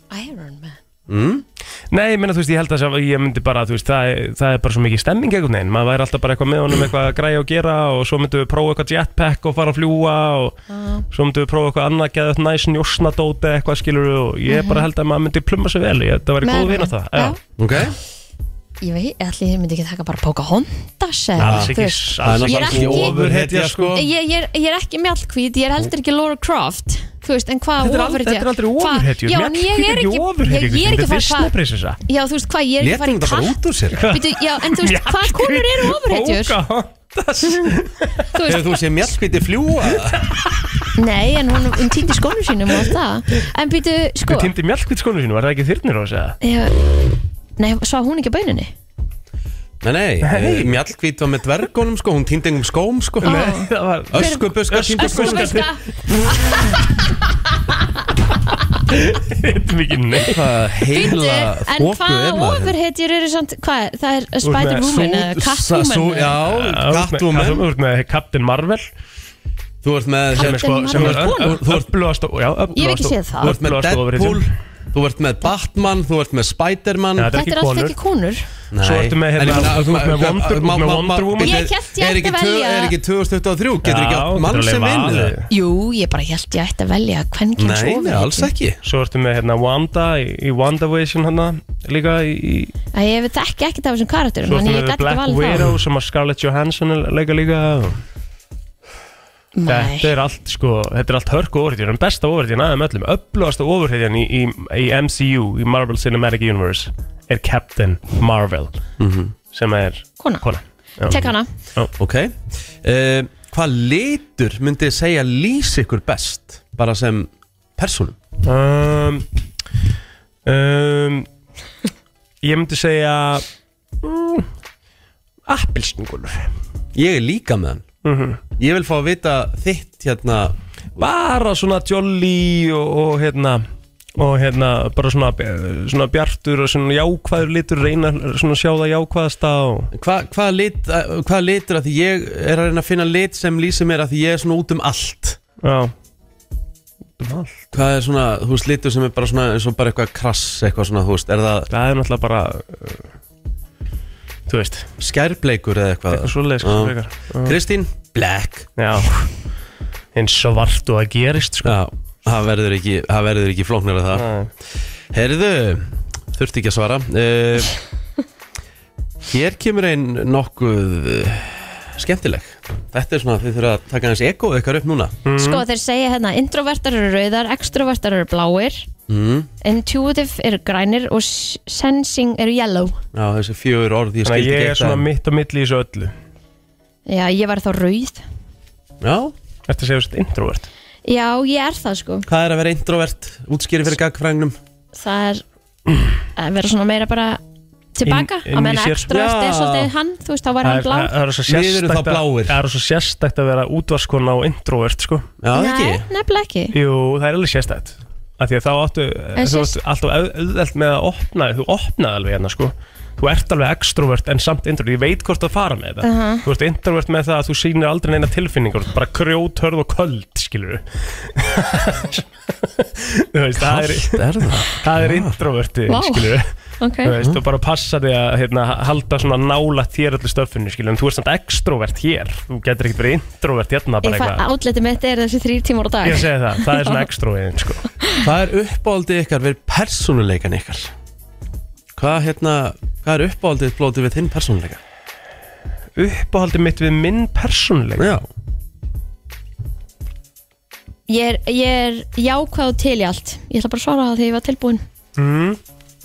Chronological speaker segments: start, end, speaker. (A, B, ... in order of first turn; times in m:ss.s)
0:00.1-0:00.8 A
0:01.1-0:01.4 B
0:01.9-0:10.6 C
0:10.7-0:11.0 A
0:11.1-0:17.4 C
0:14.5-0:14.9 A
0:16.4-0:17.4 A
0:17.6-0:18.0 B
0:18.8-0:23.2 A
0:21.4-0:24.0 C
0:21.4-0:24.0 B
0:23.9-0:31.5 A
0:27.8-0:32.0 C
0:32.1-0:36.5 A
0:32.8-0:34.1 B
0:33.9-0:38.3 C
0:38.3-0:39.2 A
0:38.5-0:40.2 B
0:41.0-0:44.5 A
0:44.3-0:46.4 C
0:46.4-0:46.8 A
0:47.6-0:48.7 A
0:49.8-0:53.4 B
0:50.2-0:50.7 C
0:53.2-0:55.7 C
0:53.2-0:55.8 A
0:54.1-0:55.7 B
0:58.9-1:00.4 C
1:00.2-1:02.8 B
1:00.9-1:06.4 A
1:04.4-1:05.1 C
1:04.9-1:07.7 B
1:06.4-1:08.9 C
1:09.8-1:11.9 B
1:10.4-1:11.6 A
1:10.4-1:14.5 C
1:12.8-1:13.6 A
1:13.4-1:17.4 B
1:17.2-1:18.0 C
1:17.3-1:18.4 A
1:18.7-1:25.4 B
1:18.8-1:21.6 C
1:21.4-1:23.0 A
1:23.8-1:25.5 C
1:25.5-1:28.5 A
1:27.6-1:28.8 B
1:28.8-1:32.7 C
1:32.9-1:35.8 A
1:34.4-1:38.0 C
1:39.6-1:40.1 A
1:39.7-1:48.8 C
1:49.0-1:49.4 B
1:49.5-1:51.9 C
1:51.0-1:51.5 A
1:52.0-1:58.2 B
1:58.4-1:59.2 C
2:00.5-2:01.3 C
2:02.4-2:03.5 C
2:04.0-2:04.5 C
2:05.5-2:06.5 C
2:07.0-2:07.9 B
2:08.0-2:08.4 C
2:08.6-2:10.6 B
2:11.0-2:13.6 C
2:14.2-2:19.9 C
2:19.9-2:25.4 B
2:25.6-2:25.9 C
2:27.2-2:27.7 C
2:27.7-2:31.7 B
2:31.7-2:33.0 C
2:34.5-2:34.9 C
2:35.0-2:38.7 B
2:36.1-2:37.6 C
2:38.8-2:39.3 C
2:40.2-2:41.8 C
2:41.6-2:44.2 B
2:44.1-2:44.5 C
2:45.1-2:47.7 B
2:49.3-2:55.2 B
2:55.2-2:55.6 C
2:55.4-2:58.9 A
2:59.1-2:59.5 B
2:59.6-3:03.0 A
3:03.1-3:05.1 B
3:04.2-3:06.1 C
3:07.1-3:08.2 A
3:09.0-3:09.3 B
3:09.7-3:10.7 C
3:11.0-3:12.3 A
3:12.3-3:14.6 B
3:15.0-3:15.4 A
3:16.4-3:17.4 A
3:18.0-3:21.1 A
3:18.0-3:19.1 C
3:19.1-3:19.9 B
3:20.6-3:25.3 C
3:21.5-3:22.6 B
3:25.4-3:26.1 B
3:25.5-3:26.7 A
3:26.7-3:46.5 C
3:29.4-3:29.8 A
3:36.0-3:36.4 A
3:43.6-3:45.4 B
3:45.9-3:47.1 A
3:47.0-3:54.4 C
3:54.0-3:57.0 A
3:56.0-3:57.9 C
3:58.2-4:00.9 B
4:02.0-4:04.8 B
4:06.0-4:08.1 C
4:08.0-4:08.3 B
4:11.1-4:14.8 A
4:15.2-4:15.6 C